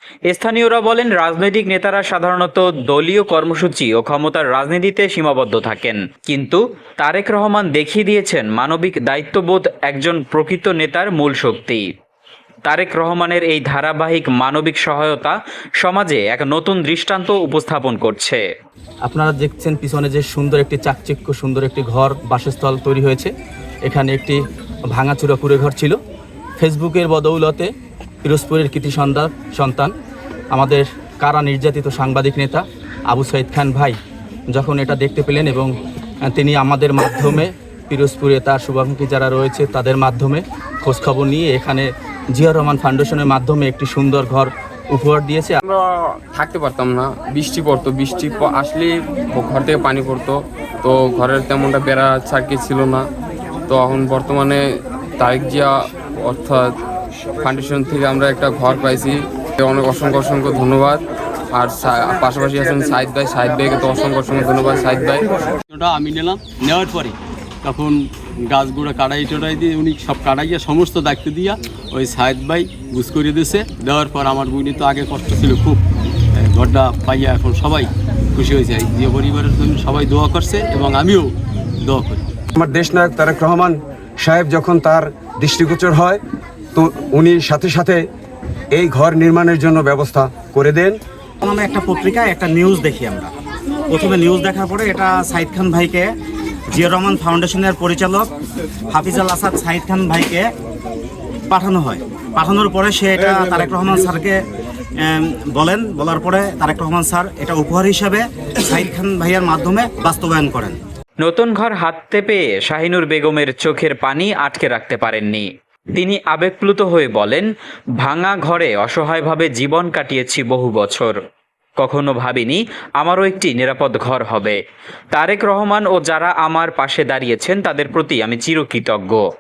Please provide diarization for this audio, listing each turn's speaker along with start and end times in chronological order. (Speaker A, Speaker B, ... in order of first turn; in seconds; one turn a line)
Speaker A: 0.3-11.8
Speaker A: 12.7-18.4
Speaker B: 19.0-23.3
Speaker B: 23.8-24.4
Speaker B: 24.9-25.9
Speaker B: 26.6-27.7
Speaker B: 28.2-29.9
Speaker B: 30.5-34.0
Speaker B: 34.5-35.7
Speaker B: 36.2-45.6
Speaker C: 45.6-53.0
Speaker C: 53.7-54.6
Speaker C: 55.2-56.7
Speaker C: 57.4-65.3
Speaker D: 65.7-67.9
Speaker D: 68.5-75.8
Speaker D: 76.3-82.2
Speaker E: 82.5-86.2
Speaker E: 86.7-88.0
Speaker E: 88.7-91.0
Speaker F: 91.4-93.3
Speaker F: 93.9-96.1
Speaker F: 96.7-98.3
Speaker F: 98.9-100.5
Speaker F: 101.5-104.4
Speaker F: 105.0-110.8
Speaker A: 111.2-117.5
Speaker A: 118.0-121.2
Speaker A: 121.8-124.6
Speaker A: 125.1-129.2